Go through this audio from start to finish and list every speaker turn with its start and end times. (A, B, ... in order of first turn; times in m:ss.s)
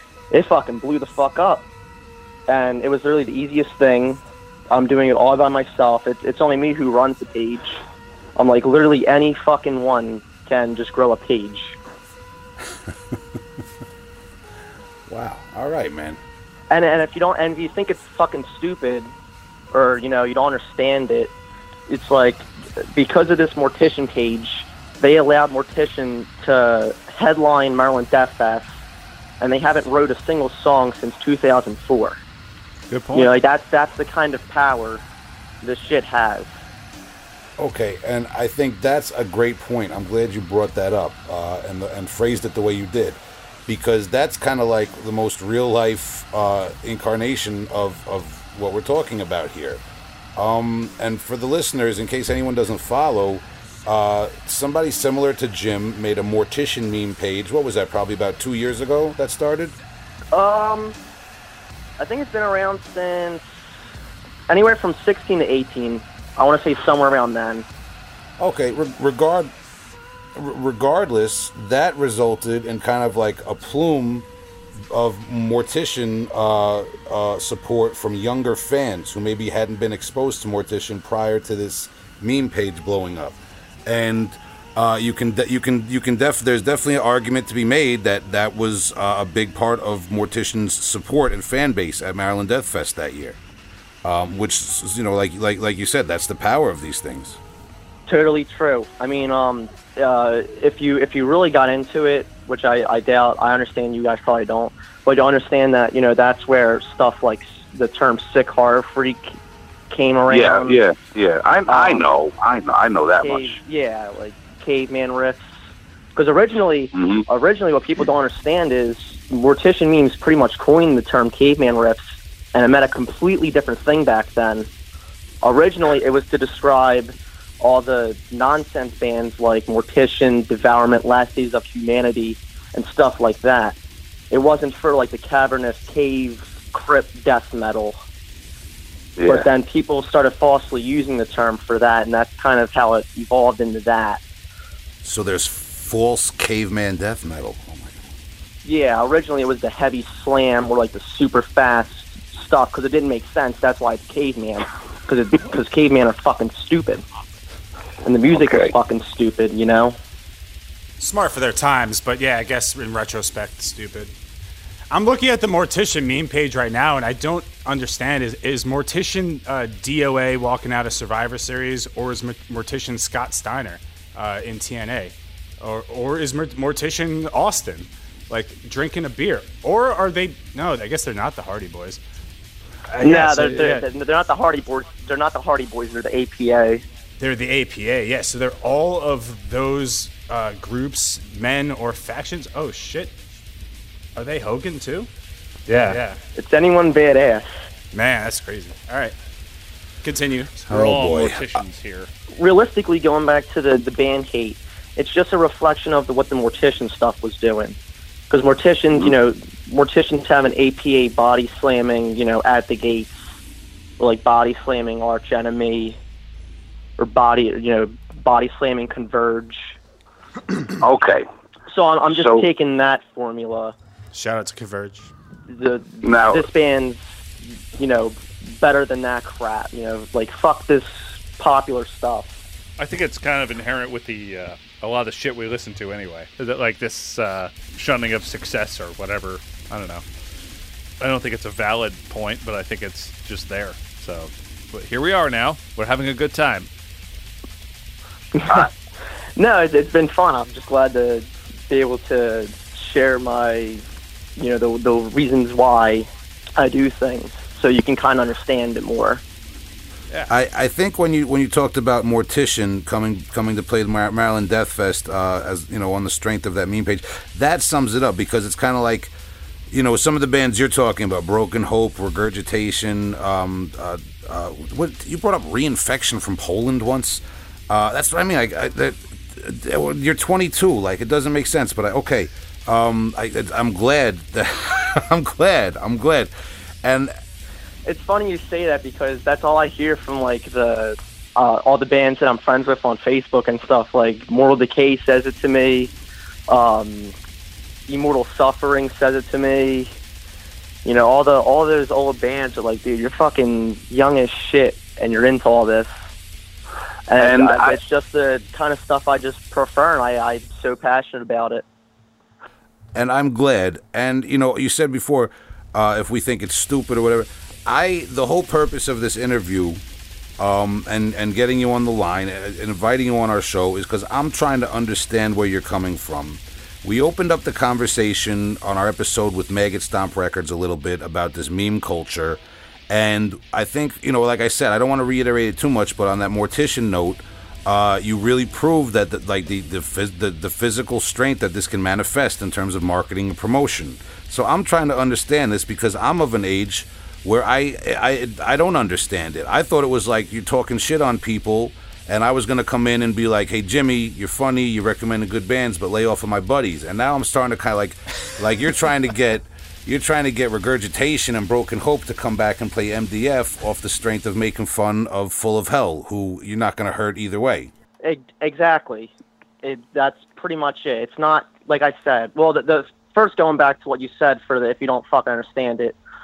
0:00.3-0:01.7 A
0:02.5-0:07.8 A
0:08.4-0:11.8 A
0:15.1-0:16.2 B
0:16.7-0:19.1 A
0:19.7-0:21.3 A
0:21.9-0:28.7 A
0:29.4-0:32.2 A
0:32.9-0:33.3 C
0:33.1-0:35.0 A
0:35.6-0:36.5 A
0:37.6-0:49.8 B
0:50.4-0:59.7 B
1:00.3-1:01.0 A
1:02.0-1:03.4 A
1:04.5-1:07.6 A
1:08.4-1:09.5 B
1:10.4-1:14.3 B
1:14.9-1:33.4 B
1:34.0-1:37.4 B
1:38.1-1:49.4 A
1:49.9-1:50.8 A
1:50.3-1:53.6 D
1:51.7-1:52.1 A
1:53.2-1:55.5 A
1:56.2-2:02.0 A
1:56.9-1:57.2 D
2:02.5-2:04.7 A
2:05.4-2:13.8 A
2:14.3-2:18.0 A
2:19.2-2:19.5 D
2:19.3-2:24.2 A
2:25.0-2:28.0 B
2:28.6-2:37.0 A
2:38.0-2:40.0 A
2:38.3-2:38.7 D
2:41.0-2:44.1 E
2:44.9-3:02.0 E
3:02.9-3:03.8 E
3:03.0-3:06.8 A
3:07.2-3:13.1 E
3:14.2-3:15.1 E
3:15.7-3:16.2 E
3:16.4-3:17.5 A
3:17.9-3:19.1 E
3:20.0-3:20.9 E
3:20.7-3:21.5 B
3:20.7-3:22.1 C
3:22.3-3:27.8 A
3:28.3-3:33.2 A
3:34.0-3:36.0 A
3:37.0-3:39.7 A
3:40.8-3:41.2 D
3:41.7-3:43.7 A
3:42.1-3:42.4 D
3:44.1-3:45.1 E
3:45.5-3:47.0 A
3:46.0-3:46.5 D
3:47.8-3:52.3 A
3:52.8-4:00.0 C
4:01.0-4:06.7 C
4:08.4-4:08.7 A
4:09.4-4:13.8 A
4:14.4-4:19.2 A
4:20.3-4:29.1 B
4:29.7-4:46.3 B
4:46.8-4:47.1 B
4:47.8-4:55.9 A
4:56.5-4:57.1 A
4:57.9-4:59.9 A
5:00.8-5:05.9 A
5:07.1-5:11.6 A
5:07.2-5:07.8 D
5:12.9-5:19.8 B
5:20.4-6:07.7 B
6:08.0-6:09.1 A
6:09.6-6:16.0 A